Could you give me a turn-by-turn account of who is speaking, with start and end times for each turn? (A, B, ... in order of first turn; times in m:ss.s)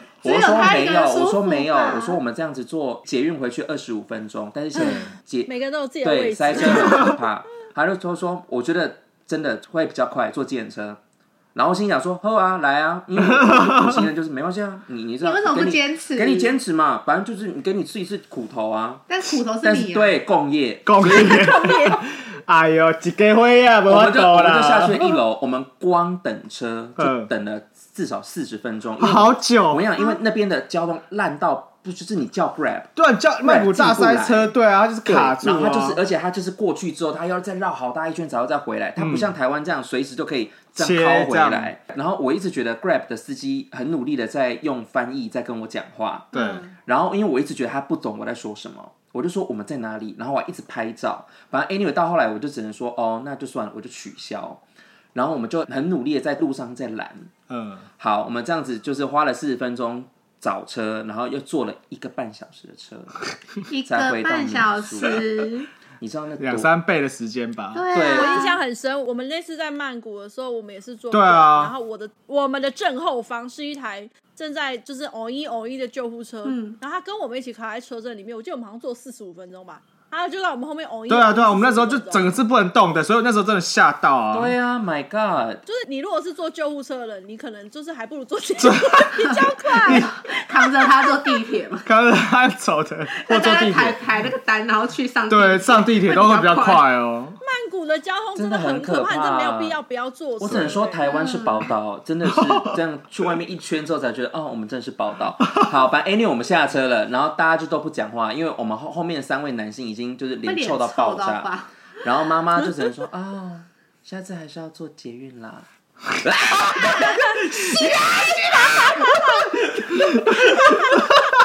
0:00.2-0:02.2 A
0:00.2-0:05.5 B
0:04.7-0:07.2 C
0:04.8-0:05.1 D
0:06.0-0:11.0 B
0:11.5-0:19.0 B
0:13.2-0:14.0 D
0:15.2-0:16.5 A
0:19.1-0:20.2 A
0:19.6-0:21.9 B
0:20.8-0:25.2 D
0:21.1-0:22.0 C
0:23.9-0:32.9 B
0:27.0-0:27.3 D
0:29.0-0:29.9 D
0:33.0-0:36.0 D
0:33.4-0:34.5 B
0:35.0-0:54.6 B
0:39.0-0:39.3 D
0:40.8-0:41.7 D
0:46.3-0:46.7 A
0:46.3-0:46.6 D
0:55.1-0:57.3 B
0:57.5-0:57.8 D
0:58.0-1:03.3 B
1:03.7-1:05.7 A
1:03.8-1:05.2 B
1:06.0-1:06.7 B
1:06.4-1:07.8 D
1:07.7-1:08.6 A
1:07.9-1:08.4 B
1:08.1-1:22.3 C
1:11.1-1:11.7 D
1:16.4-1:16.8 A
1:21.1-1:24.5 D
1:24.3-1:25.6 B
1:25.6-1:30.1 C
1:28.6-1:29.2 D
1:29.2-1:31.9 A
1:29.8-1:30.1 D
1:31.8-1:34.0 D
1:33.1-1:36.9 A
1:35.3-1:37.4 D
1:37.4-1:41.2 C
1:38.3-1:39.8 B
1:40.4-1:51.5 B
1:41.0-1:41.7 A
1:50.4-1:51.7 A
1:52.0-2:01.0 B
1:57.8-1:58.8 A